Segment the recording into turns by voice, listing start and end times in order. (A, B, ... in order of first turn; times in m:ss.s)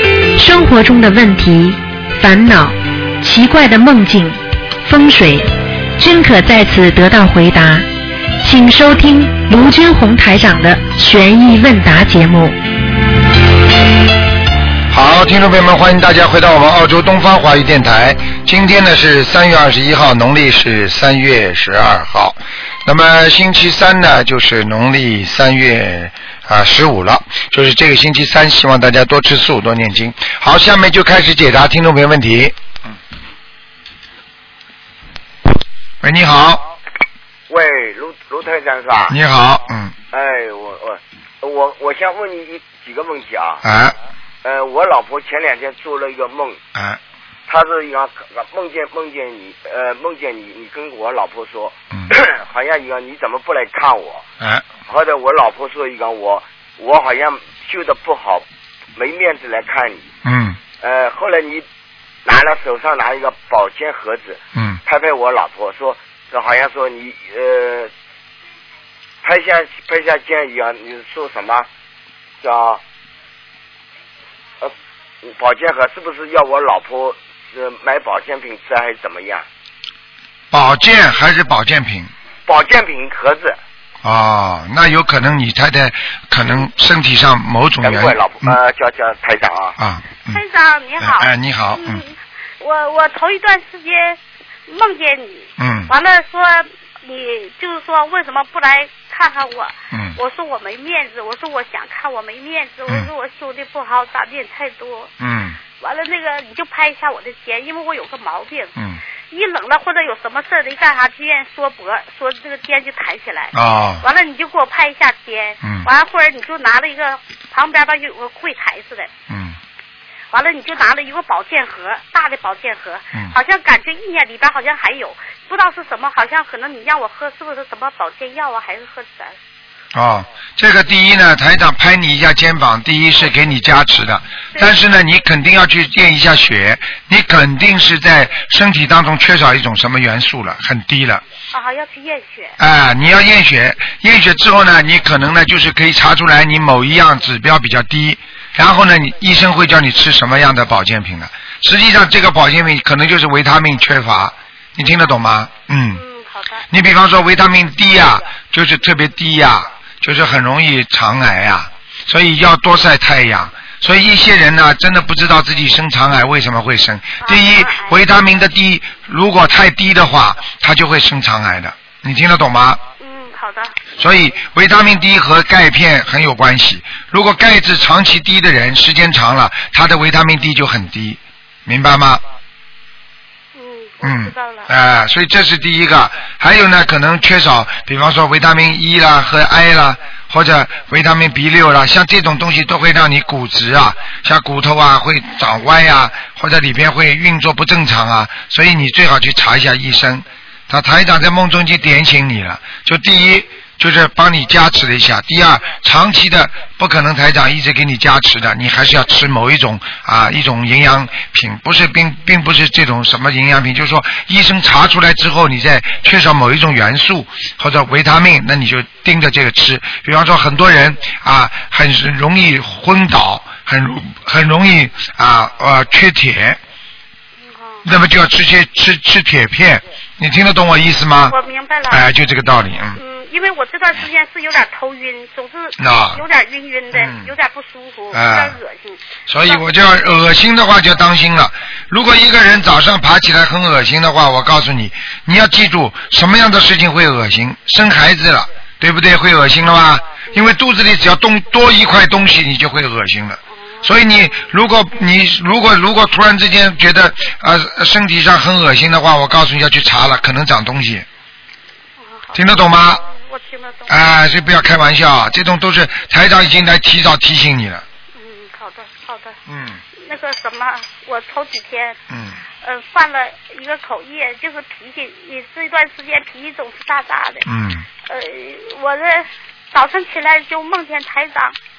0:00.4-0:07.8 A
0:08.4-0:12.6 A
0:14.9-0:32.6 B
0:36.0-0:36.6 B
0:37.5-0:39.2 C
0:39.1-0:39.9 B
0:40.1-0:43.6 C
0:43.6-0:43.9 B
0:44.4-0:46.6 C
0:46.7-0:47.0 B
0:47.5-0:54.2 C
0:54.4-0:54.6 B
0:54.9-0:58.4 C
0:59.0-1:00.1 C
1:00.2-1:00.6 B
1:00.8-1:01.6 C
1:02.2-1:07.9 C
1:04.5-1:04.8 B
1:09.2-1:11.7 C
1:12.4-1:12.8 C
1:14.6-1:19.4 C
1:20.5-1:22.1 B
1:22.5-1:23.6 C
1:24.0-1:28.6 B
1:27.8-1:29.8 C
1:29.8-1:30.4 B
1:30.3-1:45.1 D
1:31.0-1:32.0 B
1:35.6-1:35.9 B
1:39.9-1:40.2 B
1:45.2-1:45.6 B
1:45.8-1:48.8 D
1:49.3-1:59.1 D
1:53.5-1:54.0 B
1:55.6-1:55.9 B
1:59.3-1:59.6 B
2:00.3-2:09.4 D
2:09.9-2:21.2 B
2:21.5-2:22.6 D
2:22.6-2:36.0 B
2:34.8-2:35.2 D
2:35.9-2:36.7 D
2:36.7-2:52.8 B
2:47.2-2:48.0 D
2:53.0-2:53.8 D
2:54.0-3:02.2 B
3:03.5-3:04.7 D
3:04.0-3:46.6 B
3:47.4-3:47.8 D
3:47.8-3:51.3 B
3:51.3-3:52.1 D
3:51.9-3:53.0 B
3:52.9-3:59.6 D
3:55.8-3:56.2 B
3:56.9-3:57.3 B
3:58.1-3:58.6 B
3:59.3-4:21.0 B
4:13.5-4:14.4 D
4:22.0-4:24.5 D
4:22.3-4:23.0 B
4:23.9-4:27.8 B
4:28.1-4:29.4 D
4:29.5-4:29.8 B
4:30.0-4:32.0 D
4:32.1-4:32.4 B
4:32.6-4:37.5 D
4:37.4-4:37.8 B
4:38.0-4:41.6 D